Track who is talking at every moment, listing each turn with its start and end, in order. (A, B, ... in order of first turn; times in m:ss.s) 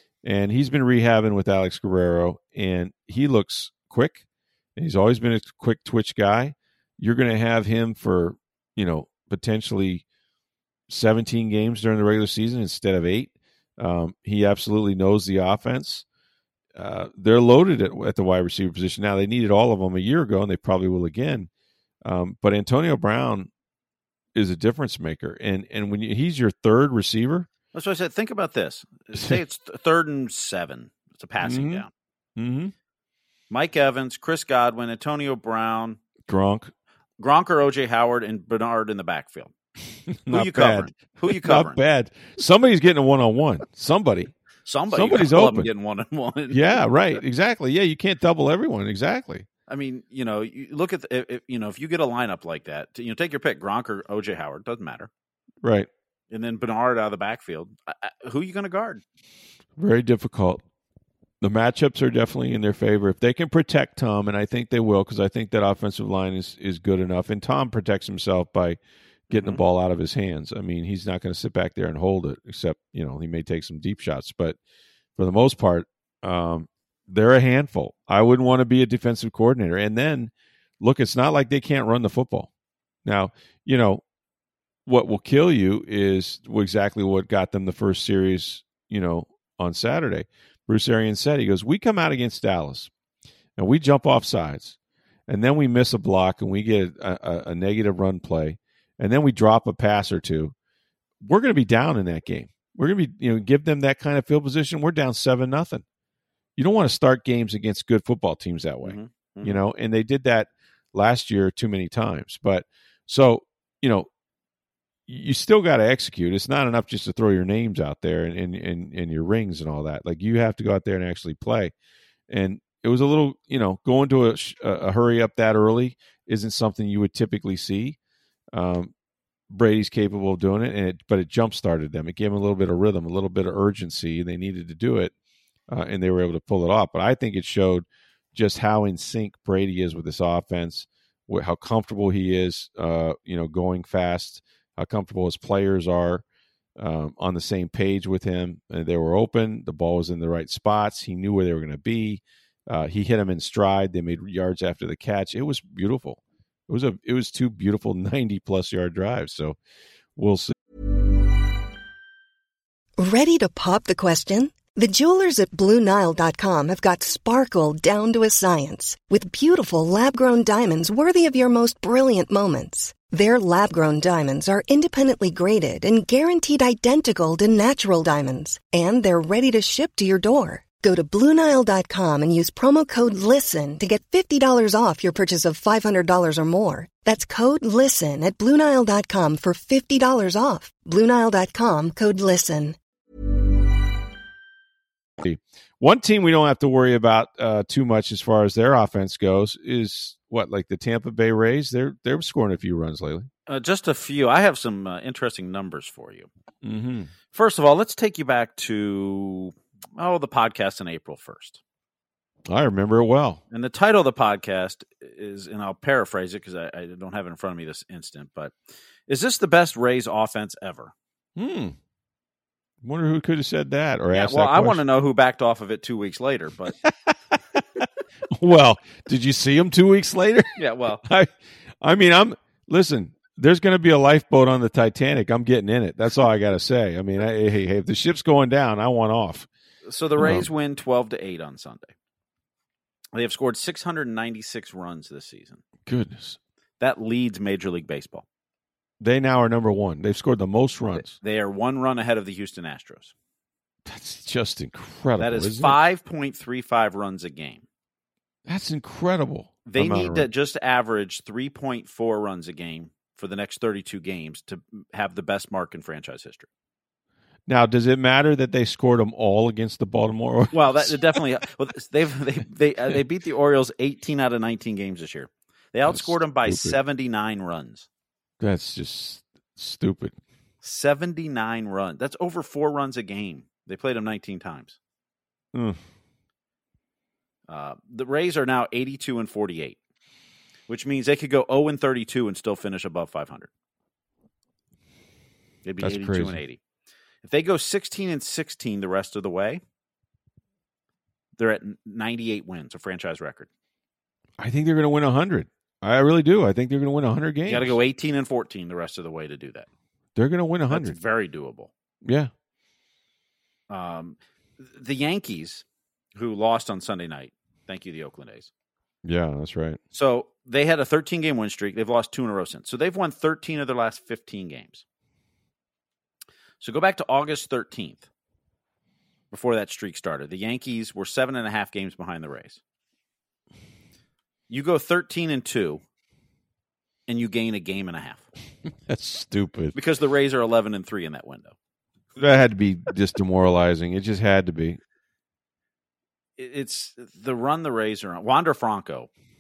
0:00.2-0:04.2 A
0:04.8-0:10.0 A
0:10.9-0:16.0 A
0:16.8-0:21.5 A
0:22.0-0:23.5 A
0:24.4-0:27.5 A
0:27.7-0:31.9 B
0:31.4-0:31.8 A
0:32.4-0:32.7 A
0:33.5-0:36.0 B
0:36.3-0:36.7 A
0:37.2-0:39.5 B
0:40.1-0:44.3 A
0:40.3-0:41.8 B
0:44.6-0:47.2 B
0:44.9-0:45.7 A
0:46.5-0:49.5 A
0:49.7-0:55.1 B
0:55.6-0:55.9 A
0:56.3-0:59.0 B
0:59.8-1:00.6 A
1:01.4-1:08.8 A
1:09.3-1:14.6 A
1:09.3-1:09.6 B
1:15.2-1:22.5 A
1:23.0-1:24.0 A
1:24.9-1:32.9 A
1:33.6-1:34.8 A
1:35.3-1:40.5 A
1:41.2-1:45.8 A
1:46.6-1:54.1 A
1:48.8-1:49.6 B
1:55.1-2:01.7 A
2:02.3-2:08.0 A
2:08.5-2:08.9 A
2:09.5-2:15.1 A
2:15.7-2:26.2 A
2:26.8-2:39.6 A
2:40.2-2:40.5 A
2:43.0-3:12.8 C
3:15.2-3:23.3 A
3:23.5-3:26.3 B
3:26.6-3:27.1 A
3:27.3-3:31.6 B
3:32.5-3:33.4 A
3:33.5-3:38.6 B
3:39.1-3:40.9 B
3:41.4-3:41.8 A
3:42.8-3:44.8 A
3:44.1-3:46.8 B
3:46.8-3:59.5 A
3:50.6-3:51.0 B
3:59.9-4:02.0 B
4:00.2-4:00.5 A
4:03.1-4:05.6 B
4:05.9-4:06.4 A
4:06.8-4:08.3 B
4:09.0-4:11.1 A
4:11.1-4:13.1 B
4:13.9-4:15.8 A
4:15.2-4:17.6 B
4:18.5-4:20.3 A
4:19.7-4:26.5 B
4:27.5-4:31.1 A
4:30.5-4:37.9 B
4:35.9-4:36.8 A
4:38.4-4:40.2 A
4:40.6-4:44.8 B
4:45.5-4:45.8 A
4:47.5-4:49.8 B
4:50.7-4:53.5 B
4:55.6-4:56.6 B
4:55.8-4:56.4 A
4:57.2-4:59.6 B
5:01.4-5:03.5 B
5:04.4-5:07.8 A
5:07.5-5:09.7 B
5:10.2-5:11.0 A
5:10.7-5:11.7 B
5:12.0-5:12.3 A
5:13.7-5:15.6 B
5:16.2-5:18.5 B
5:19.0-5:19.8 A
5:19.9-5:24.8 B
5:26.6-5:28.1 B
5:29.3-5:32.6 B
5:34.5-5:35.8 B
5:37.1-5:38.3 B
5:38.7-5:39.8 A
5:39.7-5:41.6 B
5:42.2-5:44.8 A
5:46.4-5:49.1 B